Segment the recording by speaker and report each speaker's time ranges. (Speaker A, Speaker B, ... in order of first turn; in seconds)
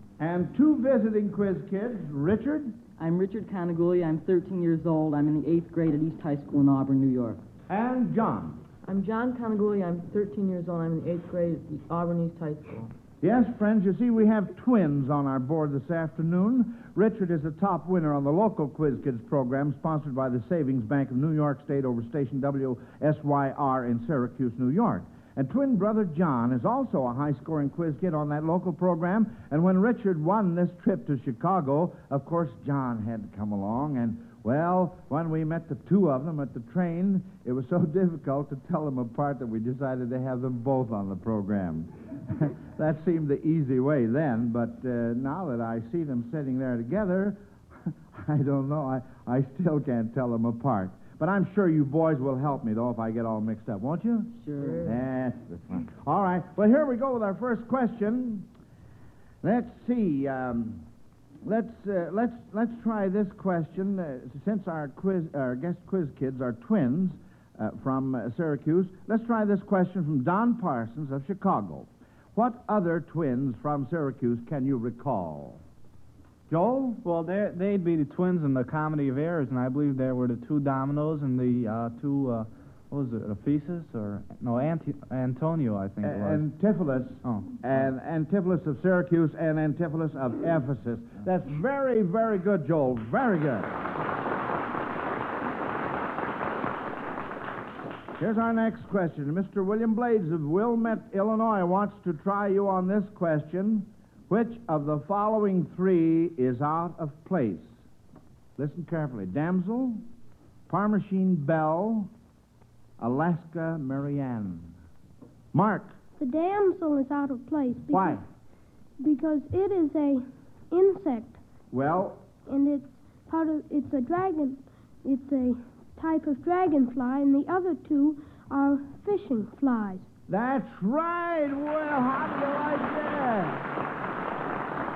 Speaker A: 0.2-2.8, 7.7-8.6, 13.2-47.4, 48.1-58.5, 59.4-60.8, 61.4-75.6, 76.5-77.0, 86.0-93.8, 98.2-107.7, 108.6-110.0, 110.7-112.1, 113.0-114.7, 115.5-115.9, 117.9-118.2, 121.7-122.2, 130.3-133.6
Speaker B: 3.0-7.4, 8.8-12.9, 54.4-55.0
Speaker C: 77.0-86.4, 87.2-87.5
Speaker D: 116.2-118.2, 119.0-121.4, 122.5-130.1